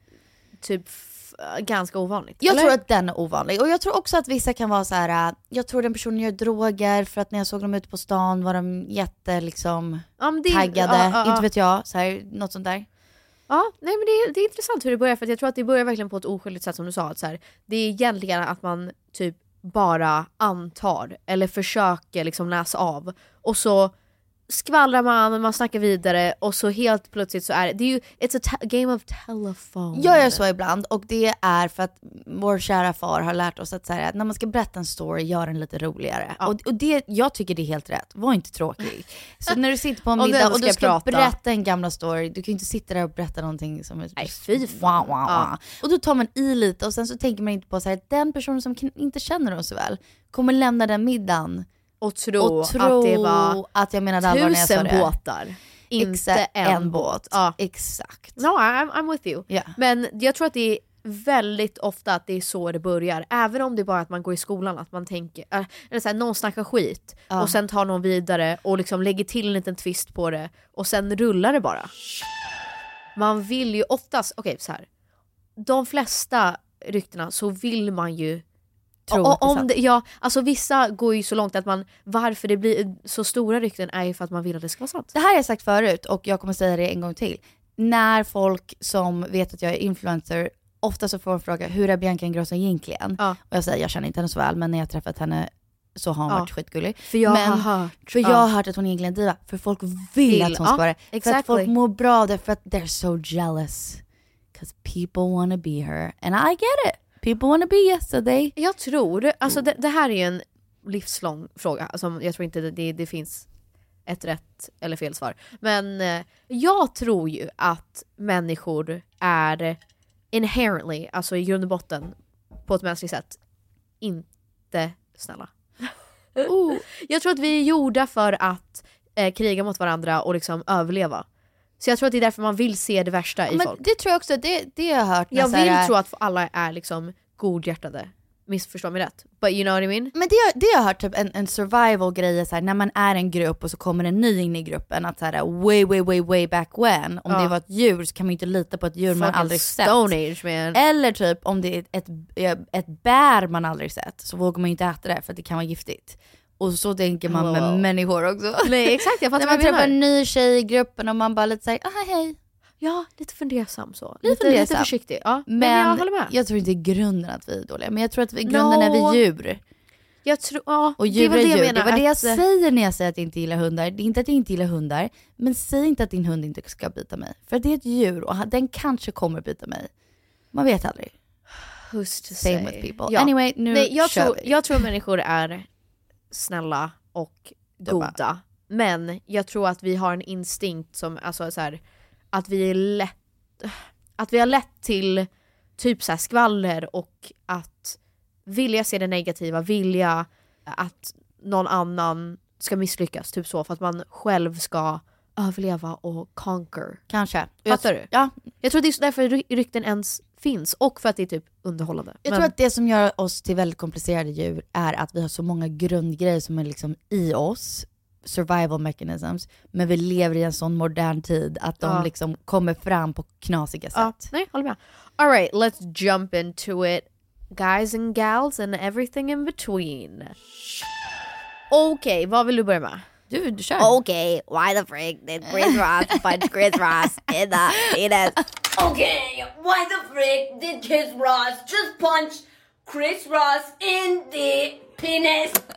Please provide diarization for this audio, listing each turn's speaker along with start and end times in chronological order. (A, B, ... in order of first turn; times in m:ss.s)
0:00.6-0:02.8 A
0:02.4-0:12.9 B
0:10.2-0:11.5 A
0:13.5-0:23.9 A
0:24.5-0:30.4 A
0:29.9-0:51.7 B
0:40.2-0:41.4 A
0:44.2-0:45.5 A
0:52.0-0:53.6 A
0:52.4-0:55.1 B
0:54.2-0:57.6 A
0:55.9-0:58.4 B
0:58.4-1:11.9 A
1:07.3-1:07.6 B
1:13.2-1:14.9 A
1:15.6-1:18.4 A
1:19.1-1:19.7 B
1:19.1-1:25.1 A
1:25.2-1:44.0 B
1:37.1-1:38.5 A
1:40.3-1:41.7 A
1:44.5-1:48.5 B
1:48.6-1:53.5 A
1:54.1-1:59.8 A
2:00.3-2:02.2 A
2:02.7-2:03.4 A
2:04.0-2:05.5 A
2:06.4-2:11.2 A
2:06.4-2:06.8 B
2:11.8-2:13.8 A
2:13.5-2:15.9 B
2:15.3-2:20.1 A
2:20.1-2:30.1 B
2:27.3-2:27.5 A
2:29.1-2:30.8 A
2:30.7-2:42.4 B
2:37.3-2:37.8 A
2:38.6-2:40.0 A
2:42.8-2:46.3 A
2:44.2-2:44.9 B
2:45.5-2:49.6 B
2:48.5-2:49.2 A
2:50.2-2:52.4 A
2:51.0-2:59.9 B
3:00.5-3:01.1 B
3:01.9-3:05.7 A
3:02.4-3:04.6 B
3:06.3-3:11.8 A
3:07.8-3:08.2 B
3:12.3-3:15.3 A
3:15.8-3:27.0 A
3:27.1-3:28.3 B
3:27.7-3:28.1 A
3:28.6-3:32.5 A
3:32.2-3:44.2 B
3:41.8-3:42.1 A
3:43.9-3:50.3 A
3:51.7-3:53.0 A
3:53.3-3:54.0 B
3:53.8-3:58.4 A
3:58.8-4:05.6 C